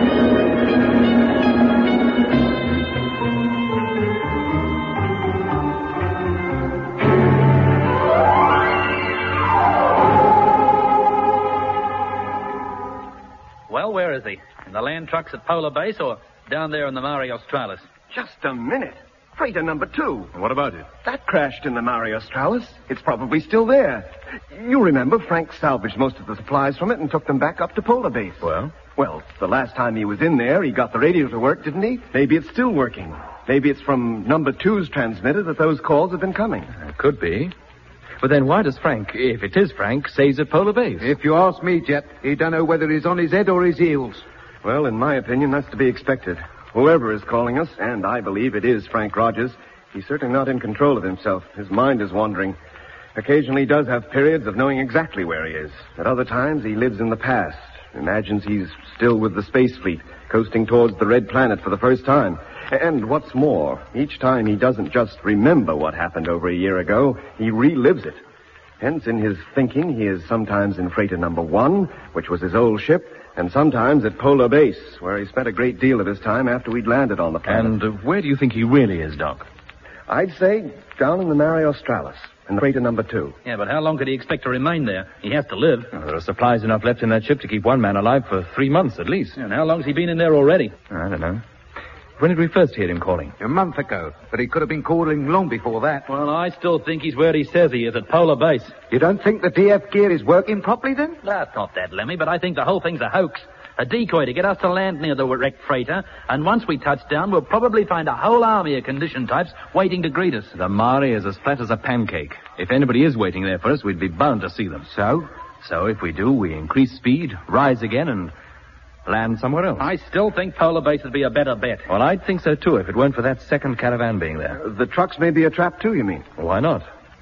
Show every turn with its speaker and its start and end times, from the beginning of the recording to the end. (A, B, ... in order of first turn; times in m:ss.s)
0:13.7-0:17.9 A
0:18.1-0:20.3 B
0:20.4-0:20.9 C
0:21.0-0:36.7 B
0:28.4-0:28.7 C
0:36.8-0:37.5 C
0:38.2-0:41.1 C
0:41.0-0:44.2 D
0:44.6-0:52.6 B
0:53.2-1:08.2 B
1:08.8-1:17.7 B
1:17.5-1:19.5 C
1:20.1-1:23.4 B
1:23.4-1:25.9 A
1:25.9-1:29.4 C
1:29.4-1:30.8 A
1:30.9-1:31.4 C
1:32.2-1:33.4 C
1:33.4-1:36.0 D
1:36.1-1:38.8 A
1:38.9-1:41.2 D
1:41.2-1:50.5 A
1:50.6-1:54.9 C
1:54.9-1:55.3 D
1:55.6-1:58.3 C
1:59.1-1:59.9 C
1:59.8-2:01.9 A
2:01.9-2:04.6 C
2:04.6-2:06.3 B
2:06.4-2:06.9 C